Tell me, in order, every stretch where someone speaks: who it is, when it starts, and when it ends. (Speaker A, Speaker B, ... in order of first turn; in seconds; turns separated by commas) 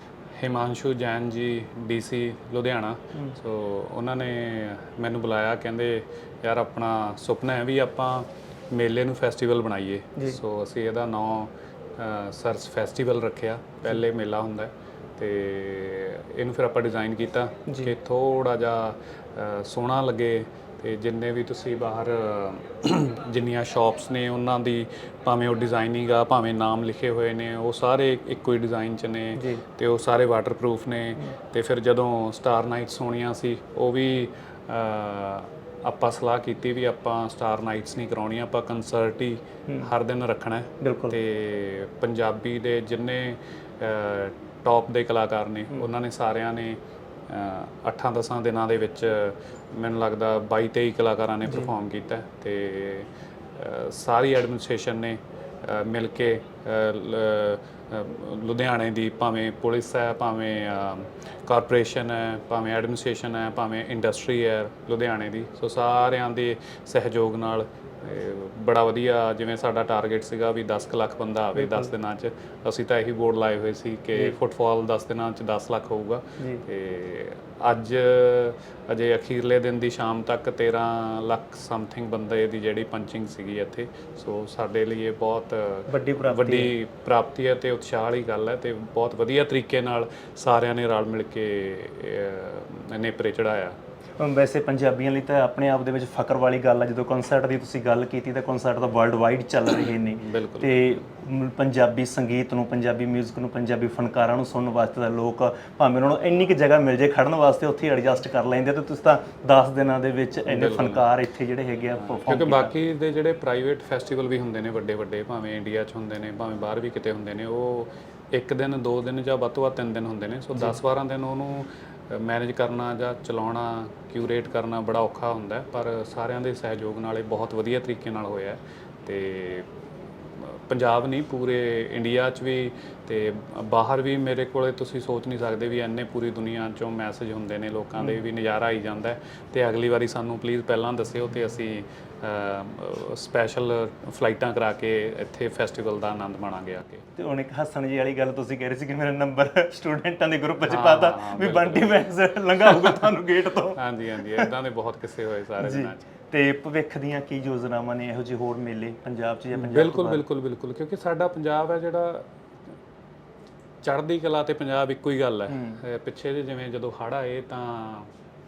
Speaker A: 0.4-46.8, Speaker B: 17.7-17.9, Speaker B: 29.4-29.6, Speaker B: 40.8-41.2, Speaker A: 47.3-93.8, Speaker B: 71.5-71.9, Speaker B: 85.9-86.7, Speaker B: 94.2-112.7, Speaker A: 100.2-100.8, Speaker A: 110.5-111.0, Speaker A: 112.0-129.7, Speaker A: 130.3-147.0, Speaker B: 147.2-154.5, Speaker A: 150.7-152.0, Speaker A: 152.6-153.1, Speaker A: 153.8-156.0, Speaker B: 155.6-160.2, Speaker A: 159.5-162.3, Speaker A: 163.8-168.1, Speaker B: 165.5-165.8